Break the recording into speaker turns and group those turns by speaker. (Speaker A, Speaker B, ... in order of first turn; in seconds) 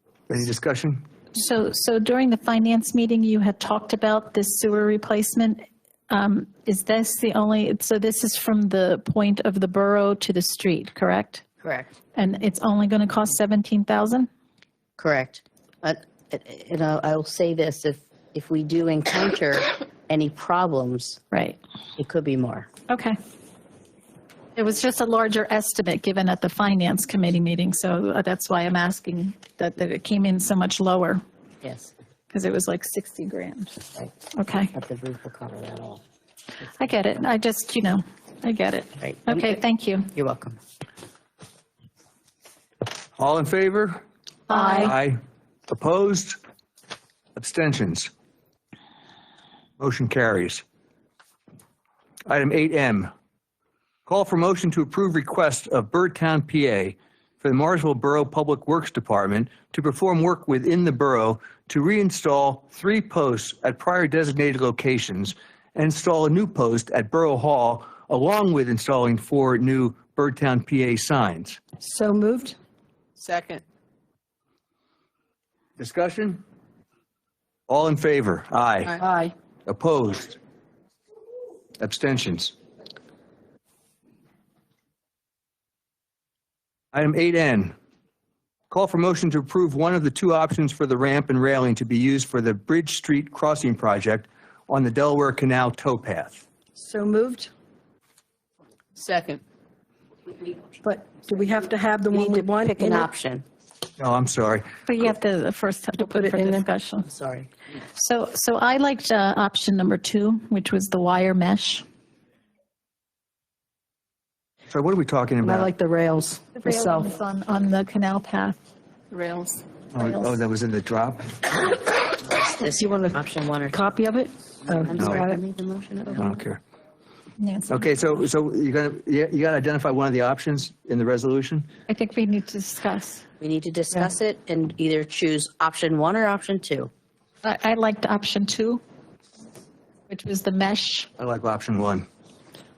Speaker A: 0.3-1.0, 43.2-44.0, 44.7-46.4, 47.4-48.1, 49.8-50.6, 52.3-53.1, 54.0-71.6, 75.8-76.4, 77.7-78.9, 79.7-80.4, 81.8-82.5, 86.9-87.7, 88.7-96.4, 104.0-104.7, 114.7-115.7, 119.9-121.3, 125.0-125.2, 126.2-126.6, 127.7-131.7, 141.2-142.1
Speaker B: 1.3-11.4, 12.1-14.3, 21.3-21.6, 22.9-23.2, 24.6-31.2, 32.3-34.7, 36.6-40.1, 44.5-45.0, 104.9-107.1, 107.9-111.8, 116.6-118.6, 120.0-120.3, 127.4-127.9, 131.9-133.2, 137.4-138.8, 140.1-141.1
Speaker C: 11.6-11.9, 15.0-21.2, 22.0-22.7, 31.6-31.9, 34.7-36.0, 39.0-40.6, 102.1-103.4, 107.0-107.5, 122.4-123.8, 124.8-126.4, 133.4-136.9
Speaker D: 71.8-72.5, 79.0-79.3, 96.8-97.5, 100.8-103.1, 106.0-106.7, 115.4-117.1, 119.1-119.6, 122.7-123.2, 123.7-125.4